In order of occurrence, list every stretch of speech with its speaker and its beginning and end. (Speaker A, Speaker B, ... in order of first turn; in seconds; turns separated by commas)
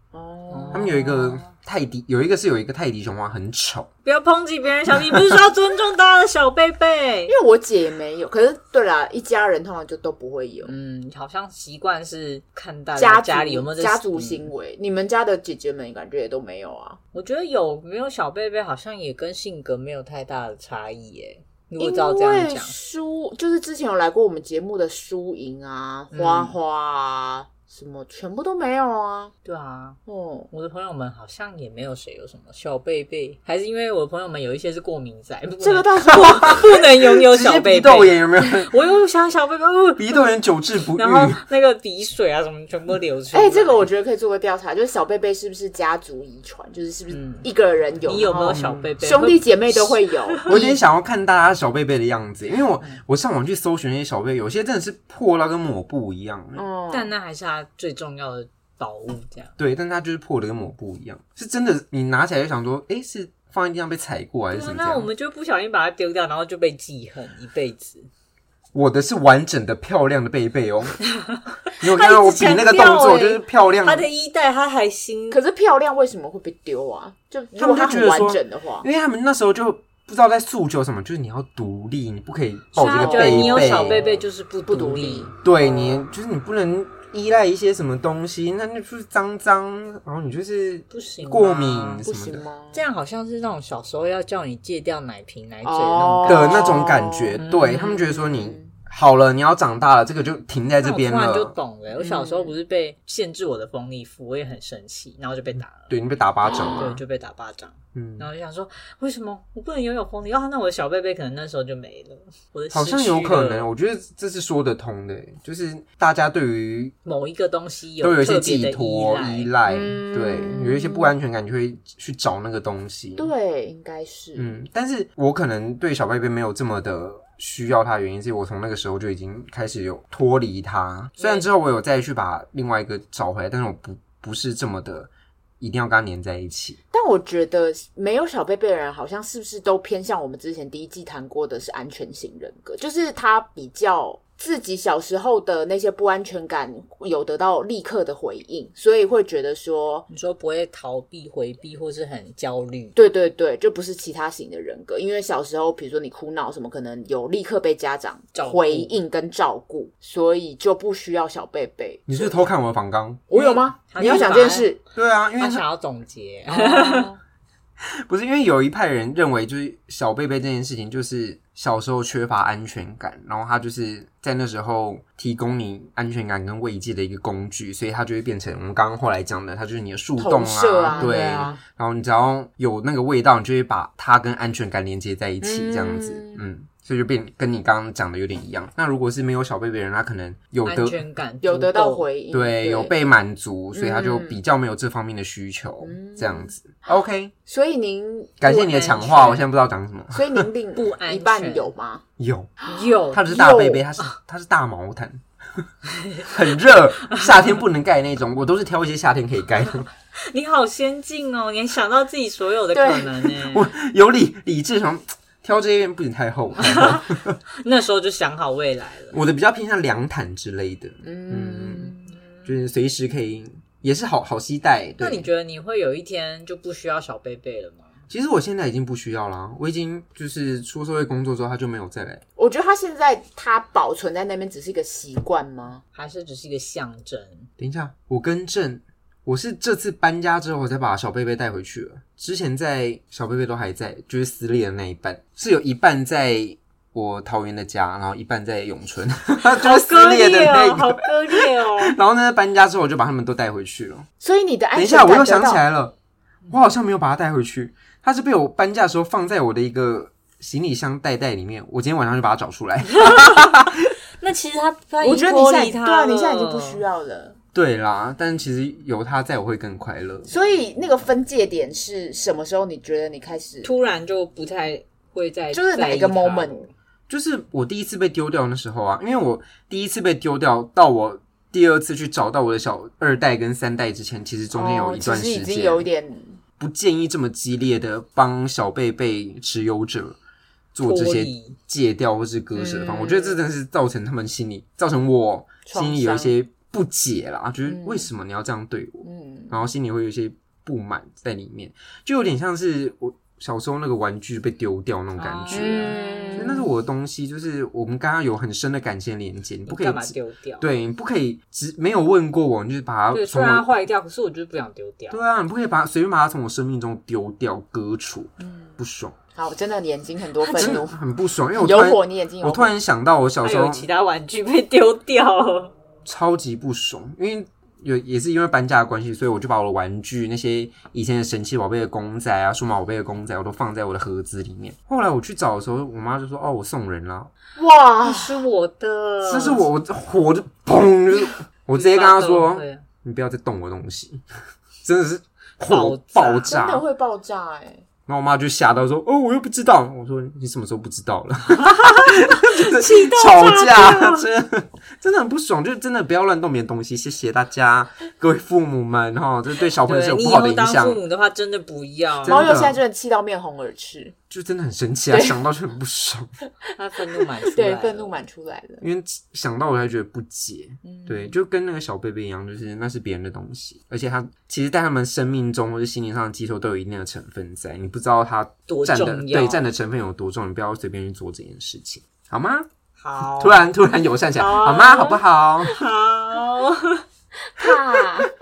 Speaker A: 0.1-0.9, Speaker B: 0.5-1.5, Speaker C: 0.7-3.9, Speaker B: 4.0-7.3, Speaker C: 5.1-5.3, Speaker A: 7.3-10.7, Speaker B: 10.6-14.5, Speaker A: 12.9-17.0, Speaker B: 17.1-22.8, Speaker A: 21.8-29.3, Speaker B: 26.1-26.6, Speaker B: 29.4-30.0, Speaker A: 30.1-30.5, Speaker B: 30.5-40.2, Speaker A: 35.6-36.8, Speaker C: 36.1-38.7, Speaker C: 40.0-41.4, Speaker B: 40.9-43.9, Speaker A: 43.3-50.8, Speaker B: 47.1-47.5, Speaker B: 48.1-50.6, Speaker C: 48.4-48.8, Speaker C: 50.5-56.6, Speaker A: 56.5-57.1, Speaker B: 56.9-59.5, Speaker C: 59.6-65.1, Speaker B: 64.5-68.1, Speaker C: 68.7-71.0, Speaker B: 71.2-75.4, Speaker C: 71.8-74.1, Speaker A: 75.3-78.8, Speaker C: 77.5-84.0, Speaker B: 82.7-85.3, Speaker A: 82.8-86.0, Speaker C: 85.4-92.4, Speaker B: 90.9-92.0, Speaker A: 92.0-92.8, Speaker B: 92.7-96.8, Speaker A: 95.6-98.7, Speaker C: 96.2-101.5, Speaker B: 97.4-98.0, Speaker B: 100.8-105.9, Speaker A: 102.0-102.5, Speaker C: 105.9-107.0, Speaker A: 106.5-106.8, Speaker B: 106.8-113.7, Speaker C: 107.9-108.3, Speaker C: 112.7-116.9, Speaker B: 117.0-119.5, Speaker C: 118.0-123.3, Speaker A: 119.7-121.1, Speaker A: 123.2-124.5, Speaker C: 124.3-136.8, Speaker A: 136.9-150.1, Speaker B: 150.1-152.9, Speaker A: 152.9-162.5, Speaker B: 158.3-158.9, Speaker C: 162.1-163.2, Speaker A: 163.3-164.8, Speaker B: 163.3-164.7, Speaker C: 164.0-164.2, Speaker C: 164.9-165.6, Speaker B: 165.4-167.1, Speaker A: 166.5-167.2, Speaker C: 168.0-191.0, Speaker A: 180.2-181.6, Speaker A: 185.4-186.5, Speaker B: 190.6-192.1, Speaker A: 191.4-192.9, Speaker C: 192.3-197.3, Speaker A: 193.7-194.4, Speaker A: 195.8-196.9, Speaker A: 197.4-198.4, Speaker C: 198.4-200.4, Speaker B: 198.4-199.4, Speaker A: 200.1-202.0, Speaker B: 200.7-201.7, Speaker C: 202.2-202.5, Speaker A: 202.6-203.8, Speaker B: 202.6-203.3, Speaker C: 203.1-205.7, Speaker B: 205.9-206.3, Speaker C: 206.2-209.9, Speaker B: 210.1-213.7, Speaker A: 212.7-213.3, Speaker C: 213.4-217.4, Speaker B: 216.6-219.2, Speaker C: 219.1-225.3, Speaker A: 221.0-222.0, Speaker B: 225.0-227.9, Speaker C: 228.1-232.2, Speaker A: 232.4-235.8, Speaker B: 235.9-237.5, Speaker C: 237.6-254.0, Speaker B: 249.4-251.9, Speaker A: 254.2-255.6, Speaker C: 254.7-255.9, Speaker C: 256.5-263.9, Speaker B: 262.9-263.6, Speaker B: 264.2-266.8, Speaker A: 265.0-267.4, Speaker C: 267.5-270.3, Speaker A: 270.3-273.7, Speaker B: 273.6-276.7, Speaker A: 275.5-276.7, Speaker C: 277.1-285.9, Speaker A: 284.5-286.4, Speaker C: 286.6-290.2, Speaker C: 290.7-313.7, Speaker B: 290.8-291.6, Speaker A: 292.5-293.4, Speaker A: 295.6-296.3, Speaker A: 297.7-298.1, Speaker A: 299.0-299.6, Speaker B: 305.2-306.6, Speaker A: 305.5-306.7, Speaker B: 309.7-310.6, Speaker B: 313.1-315.2, Speaker C: 315.1-319.1, Speaker A: 318.4-318.8, Speaker A: 319.3-320.9, Speaker B: 320.4-320.9, Speaker C: 320.6-323.9, Speaker A: 321.6-322.7, Speaker B: 323.4-325.7, Speaker C: 326.0-337.3, Speaker A: 337.6-338.4, Speaker B: 338.0-339.6, Speaker C: 339.2-344.2, Speaker B: 341.7-342.8, Speaker C: 344.8-346.8, Speaker B: 345.7-346.5, Speaker A: 346.5-347.8, Speaker C: 348.1-361.0, Speaker B: 351.6-354.2, Speaker B: 359.8-362.6, Speaker C: 362.2-362.8, Speaker A: 362.2-364.1, Speaker C: 364.3-366.3, Speaker A: 365.1-365.4, Speaker B: 366.8-368.2, Speaker A: 367.2-368.8, Speaker C: 368.8-382.7, Speaker A: 370.8-371.4, Speaker B: 378.7-379.6, Speaker B: 383.0-383.7, Speaker C: 383.2-385.7, Speaker B: 384.3-387.0, Speaker A: 387.5-388.3